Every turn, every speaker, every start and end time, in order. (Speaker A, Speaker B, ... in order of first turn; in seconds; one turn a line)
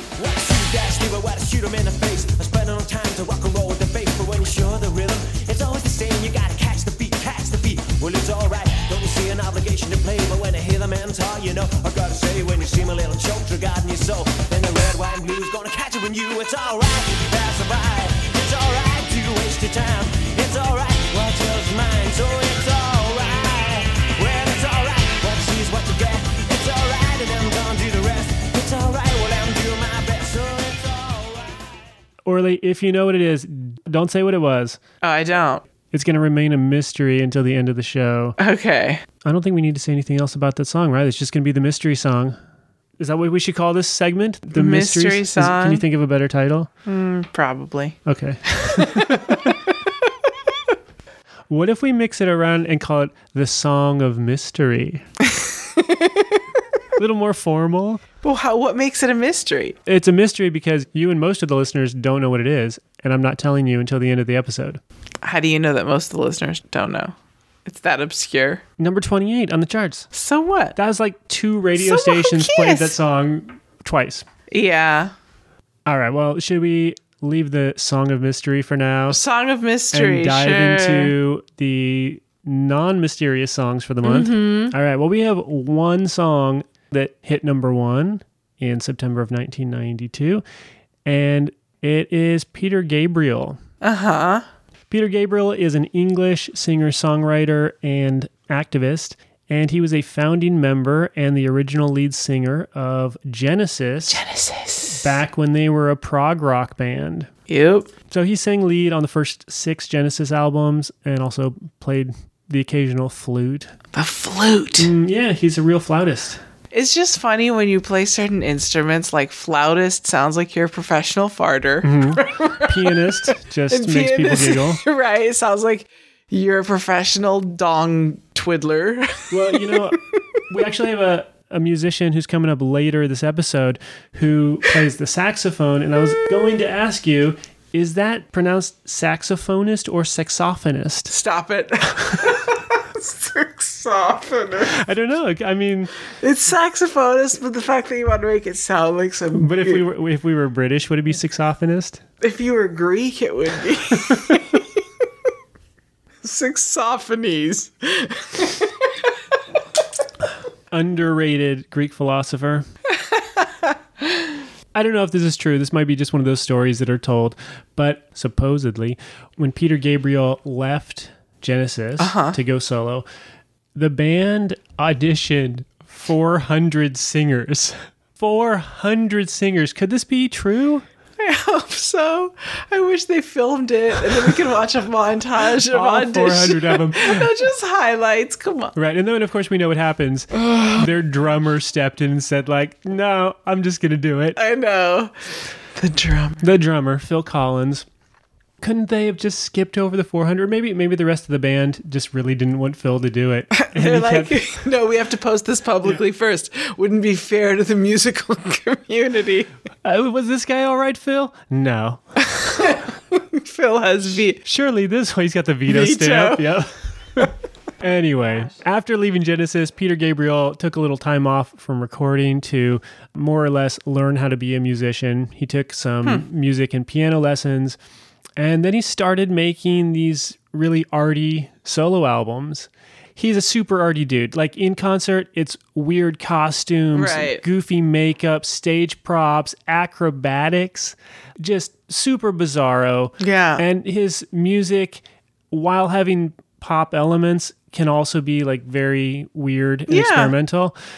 Speaker A: 0.2-31.9
Speaker B: 32.2-34.8
Speaker C: 35.0-35.6
Speaker B: 35.9-38.4
Speaker C: 38.4-39.0
Speaker B: 39.2-42.4
Speaker B: 43.0-46.7
Speaker C: 44.5-45.8
Speaker C: 46.9-48.0
Speaker B: 48.0-49.5
Speaker C: 48.5-49.7
Speaker B: 51.5-55.0
Speaker C: 55.3-56.3
Speaker B: 57.0-58.0
Speaker C: 58.2-59.8
Speaker B: 59.9-64.8
Speaker C: 65.2-68.6
Speaker B: 68.8-70.1
Speaker C: 70.1-70.8
Speaker B: 70.8-74.2
Speaker C: 71.8-73.0
Speaker C: 74.5-75.1
Speaker B: 75.8-79.2
Speaker C: 79.1-81.1
Speaker B: 79.9-90.4
Speaker C: 84.0-84.7
Speaker B: 91.0-93.6
Speaker C: 93.8-94.4
Speaker B: 94.9-104.2
Speaker C: 104.1-105.2
Speaker B: 104.9-107.3
Speaker C: 107.5-107.9
Speaker B: 108.1-113.7
Speaker C: 113.9-114.9
Speaker B: 114.8-116.4
Speaker C: 116.7-129.9
Speaker B: 121.8-124.8
Speaker B: 129.3-141.1
Speaker C: 141.1-144.7
Speaker B: 144.7-145.9
Speaker C: 146.1-149.8
Speaker B: 149.3-152.0
Speaker C: 152.2-154.6
Speaker B: 154.1-154.4
Speaker C: 156.2-158.9
Speaker B: 160.7-162.7
Speaker C: 163.1-163.7
Speaker B: 164.7-173.1
Speaker C: 172.0-172.4
Speaker B: 173.7-180.8
Speaker C: 181.2-188.7
Speaker B: 185.5-187.3
Speaker B: 188.8-194.4
Speaker C: 190.4-190.9
Speaker C: 194.3-196.4
Speaker B: 196.4-197.8
Speaker B: 198.6-204.4
Speaker C: 203.5-209.5
Speaker B: 209.8-212.0
Speaker C: 212.2-214.4
Speaker B: 214.4-227.8
Speaker C: 215.7-216.6
Speaker B: 228.4-250.8
Speaker C: 236.9-237.4
Speaker C: 243.2-243.6
Speaker C: 249.9-250.3